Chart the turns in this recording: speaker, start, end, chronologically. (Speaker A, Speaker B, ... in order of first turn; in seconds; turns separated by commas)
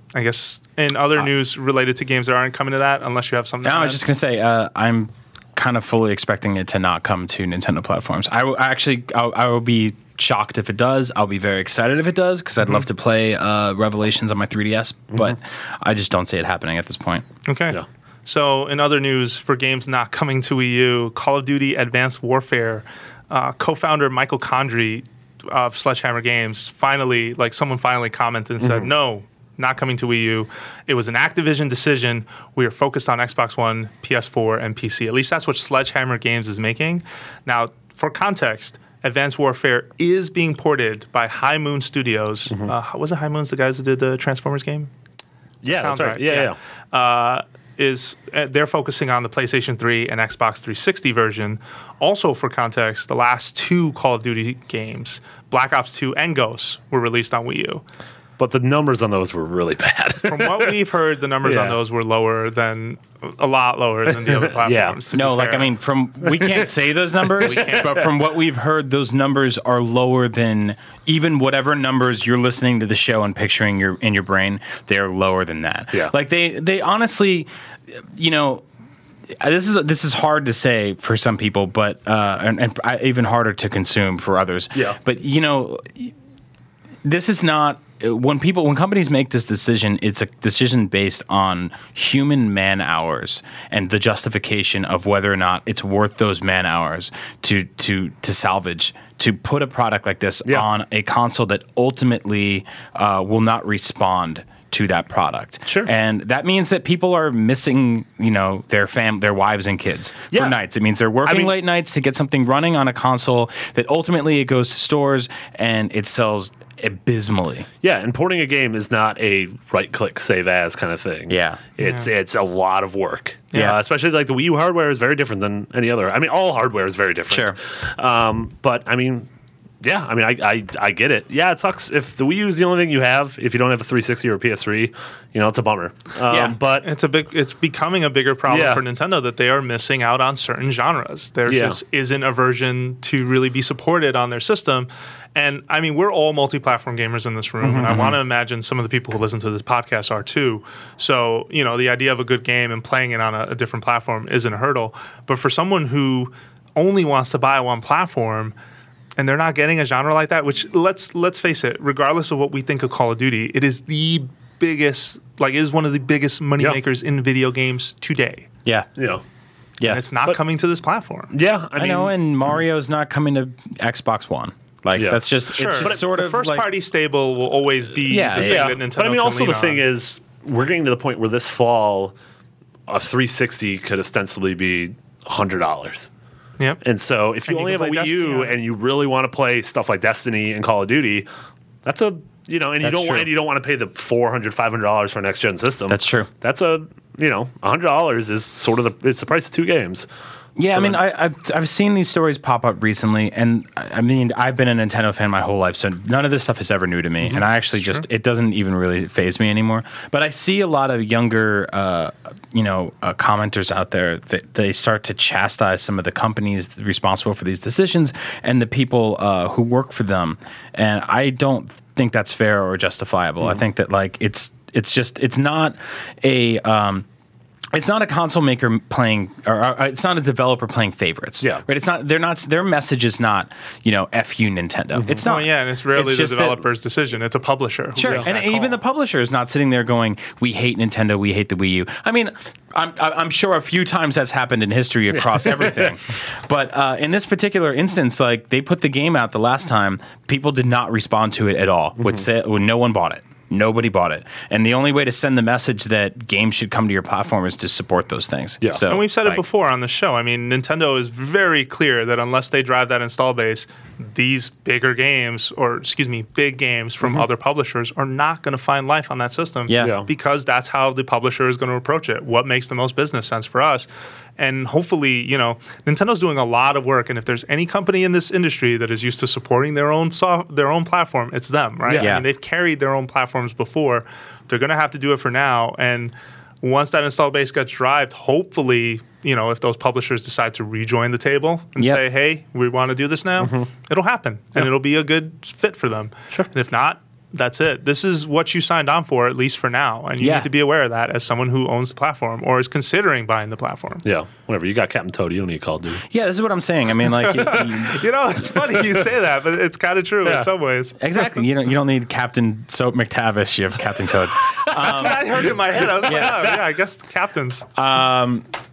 Speaker A: 0.1-4.0, Speaker B: 3.6-17.2, Speaker A: 17.4-44.9, Speaker C: 28.6-28.9, Speaker C: 45.6-46.5, Speaker A: 45.7-57.8, Speaker C: 58.4-60.8, Speaker A: 60.2-65.7, Speaker C: 61.4-61.8, Speaker C: 64.2-65.0, Speaker B: 65.1-78.6, Speaker C: 66.2-66.7, Speaker C: 67.2-68.1, Speaker A: 67.4-68.1, Speaker B: 79.4-86.1, Speaker B: 87.0-117.7, Speaker C: 105.7-105.9, Speaker C: 110.3-110.6, Speaker C: 111.2-111.5, Speaker C: 117.8-129.3, Speaker B: 121.3-121.6, Speaker A: 121.8-122.1, Speaker B: 127.3-127.5, Speaker C: 129.8-136.9, Speaker B: 136.3-136.6, Speaker A: 136.8-158.5, Speaker C: 138.5-138.8, Speaker C: 141.5-141.8, Speaker C: 147.6-148.2, Speaker A: 159.2-168.5, Speaker C: 169.0-169.2, Speaker A: 169.8-171.3, Speaker C: 171.3-172.1, Speaker B: 171.8-176.7, Speaker C: 174.9-175.2, Speaker A: 175.5-179.8, Speaker B: 178.1-178.7, Speaker C: 178.3-182.1, Speaker C: 182.9-186.1, Speaker C: 186.8-191.3, Speaker A: 187.4-188.6, Speaker C: 191.8-200.1, Speaker B: 192.8-193.3, Speaker B: 195.9-196.3, Speaker B: 200.6-227.1, Speaker C: 200.7-201.0, Speaker B: 227.7-236.6, Speaker C: 234.9-235.3, Speaker A: 235.2-238.8, Speaker B: 238.0-259.4, Speaker C: 245.2-245.9, Speaker A: 258.9-304.0, Speaker B: 269.7-270.0, Speaker C: 269.8-270.1, Speaker C: 281.9-282.1, Speaker B: 282.0-282.2, Speaker C: 293.4-293.7, Speaker B: 300.2-300.5, Speaker C: 304.0-306.0, Speaker B: 306.1-308.0, Speaker A: 307.2-311.0, Speaker B: 311.0-316.5, Speaker A: 314.7-317.6, Speaker B: 317.8-318.4